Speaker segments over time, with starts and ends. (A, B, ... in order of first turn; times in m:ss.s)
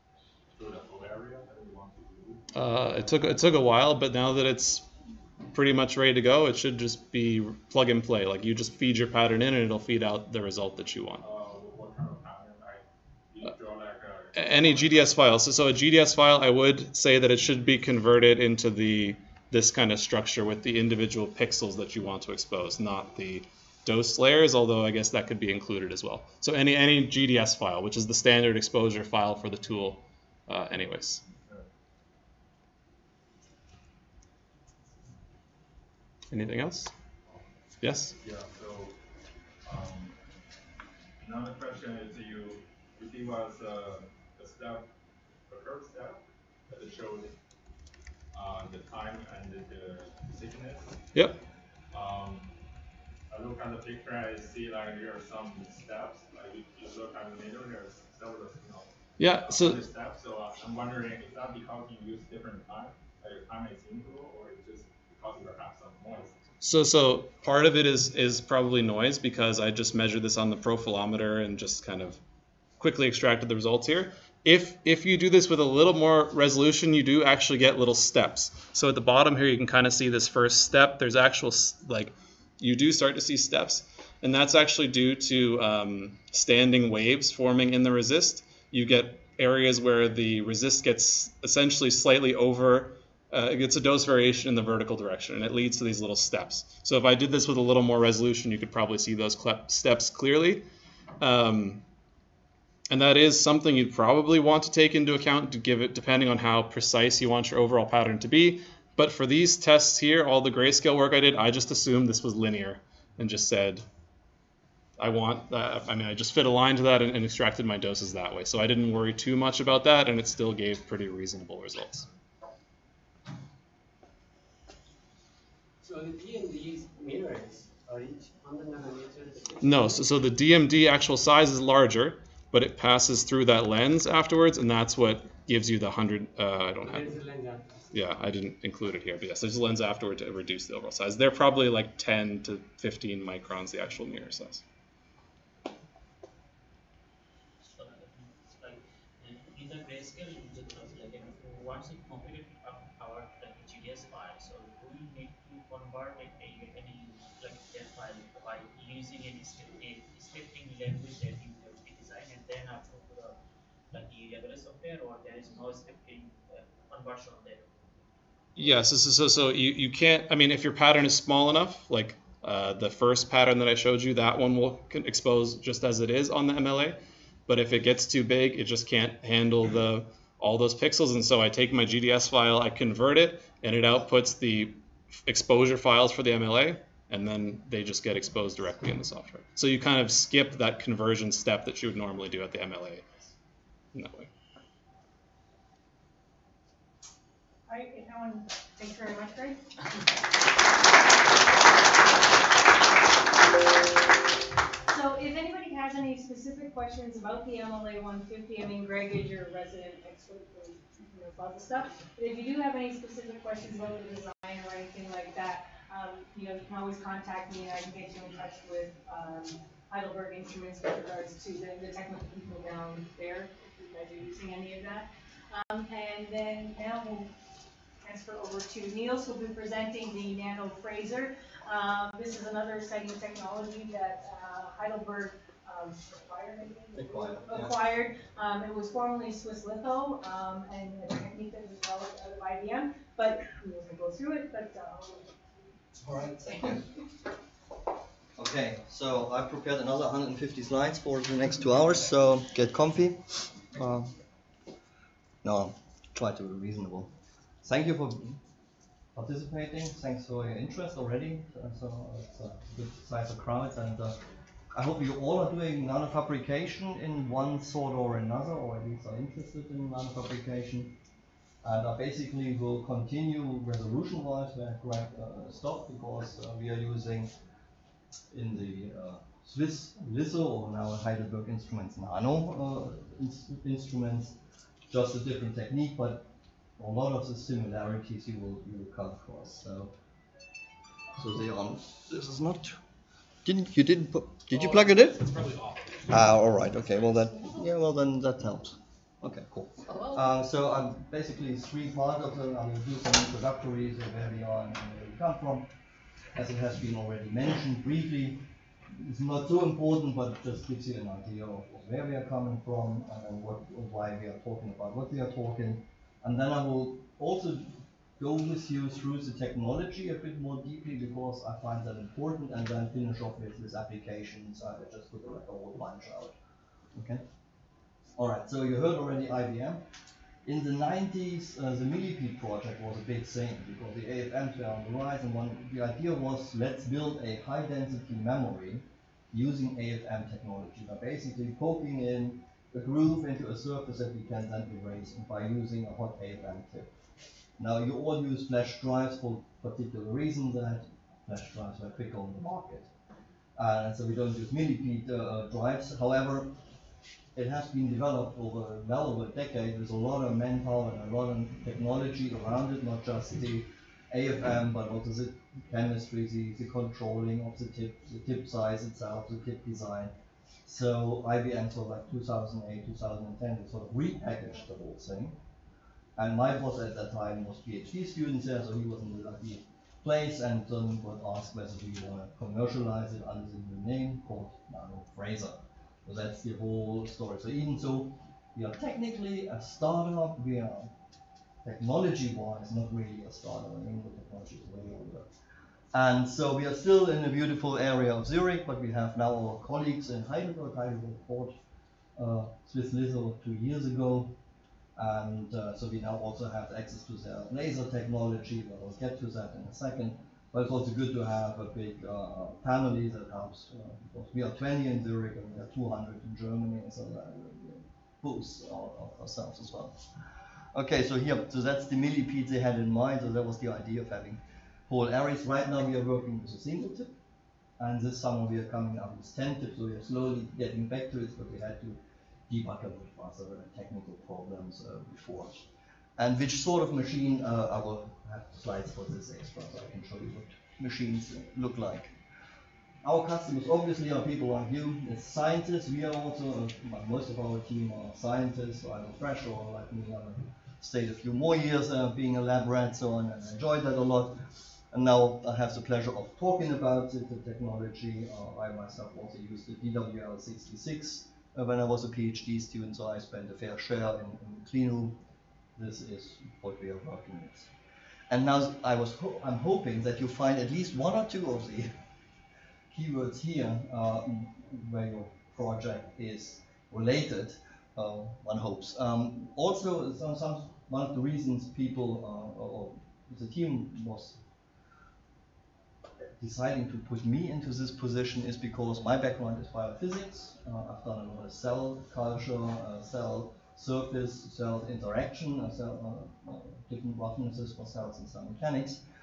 0:00.5-0:02.4 A
0:02.5-0:04.8 B
0:05.5-0:11.2 B
0:11.2-0:15.3 A
0:14.4-0:31.2 B
0:31.4-0:31.6 A
0:36.3-0:36.9 B
0:37.8-0:38.1 B
0:38.2-0:38.9 A
0:39.6-0:40.1 A
0:41.2-0:44.8 A
0:45.5-0:47.3 A
0:48.3-0:50.9 A
0:51.9-0:52.5 A
0:53.3-1:06.3 A
0:59.2-0:59.8 B
1:06.6-1:12.2 B
1:12.8-1:40.6 B
1:41.2-1:41.8 B
1:42.9-1:53.8 B
1:55.0-2:02.1 B
2:05.8-2:10.0 C
2:09.6-2:17.2 B
2:16.8-2:17.7 C
2:17.9-2:24.6 B
2:27.7-2:43.4 D
2:43.9-2:47.7 D
2:48.6-3:13.0 B
3:13.9-3:14.3 B
3:17.7-3:19.6 E
3:24.9-3:47.3 E
3:48.0-4:05.3 E
3:56.9-3:57.8 F
4:06.0-4:06.9 F
4:08.4-4:14.1 F
4:15.4-4:18.4 F
4:19.1-4:24.2 F
4:24.7-4:30.9 F
4:31.6-4:37.3 F
4:38.3-4:44.3 F
4:44.9-4:49.9 F
4:51.2-4:52.8 F
4:53.4-4:55.2 F
4:54.5-4:55.8 B
4:56.1-5:05.7 F
5:06.4-5:26.3 F
5:26.9-5:27.2 F
5:28.2-5:29.8 F
5:30.4-5:46.9 F
5:47.6-5:52.9 F
5:53.6-5:56.5 F
5:57.3-6:10.1 F
6:10.6-6:15.4 F
6:16.2-6:30.9 F
6:31.6-6:35.3 F
6:35.9-6:41.6 F
6:42.2-6:44.3 F
6:45.0-7:00.0 F
7:00.7-7:07.2 F
7:07.8-7:15.6 F
7:16.2-7:22.1 F
7:23.0-7:34.4 F
7:34.9-7:45.2 F
7:45.8-7:47.7 F
7:48.3-7:51.9 F
7:52.9-8:04.4 F
8:06.4-8:19.0 F